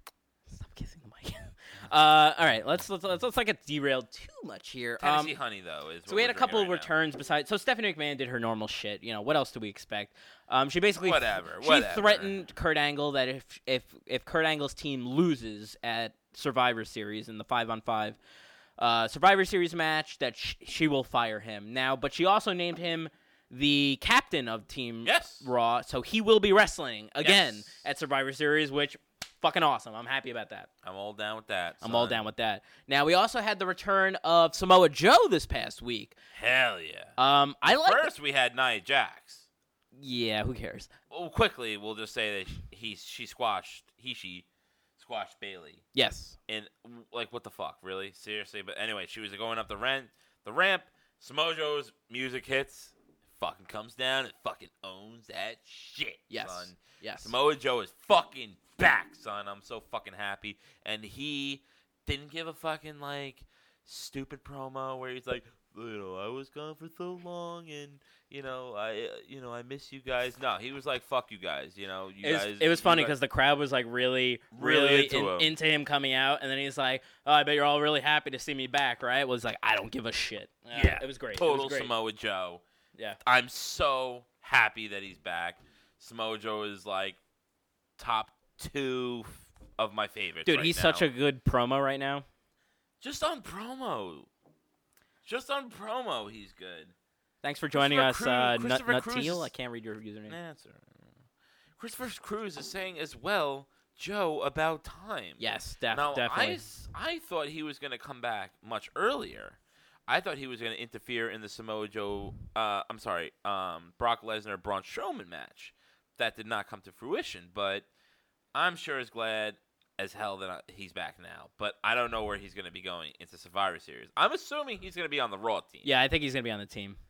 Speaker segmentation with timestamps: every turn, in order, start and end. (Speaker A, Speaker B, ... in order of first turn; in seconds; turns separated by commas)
Speaker A: 0.5-5.3, Speaker B: 5.0-6.9, Speaker A: 6.1-18.2, Speaker B: 11.0-12.4, Speaker A: 18.8-30.7, Speaker B: 25.1-25.5, Speaker B: 27.2-27.8, Speaker B: 30.8-32.2, Speaker A: 31.8-36.2, Speaker B: 36.3-39.5, Speaker A: 37.2-38.1, Speaker A: 40.0-40.9, Speaker B: 41.1-44.5, Speaker B: 45.0-45.8, Speaker A: 46.0-46.4, Speaker B: 46.5-73.2, Speaker A: 56.3-57.3, Speaker A: 72.2-81.9, Speaker B: 74.5-75.5, Speaker B: 80.7-82.6, Speaker B: 83.2-87.2, Speaker B: 88.0-91.0, Speaker A: 90.5-92.2, Speaker B: 93.0-94.3, Speaker B: 95.2-96.9, Speaker A: 97.4-100.4, Speaker B: 97.7-99.5, Speaker B: 100.3-101.1, Speaker B: 101.8-117.9, Speaker A: 105.4-106.6, Speaker B: 118.5-125.9, Speaker A: 125.8-127.0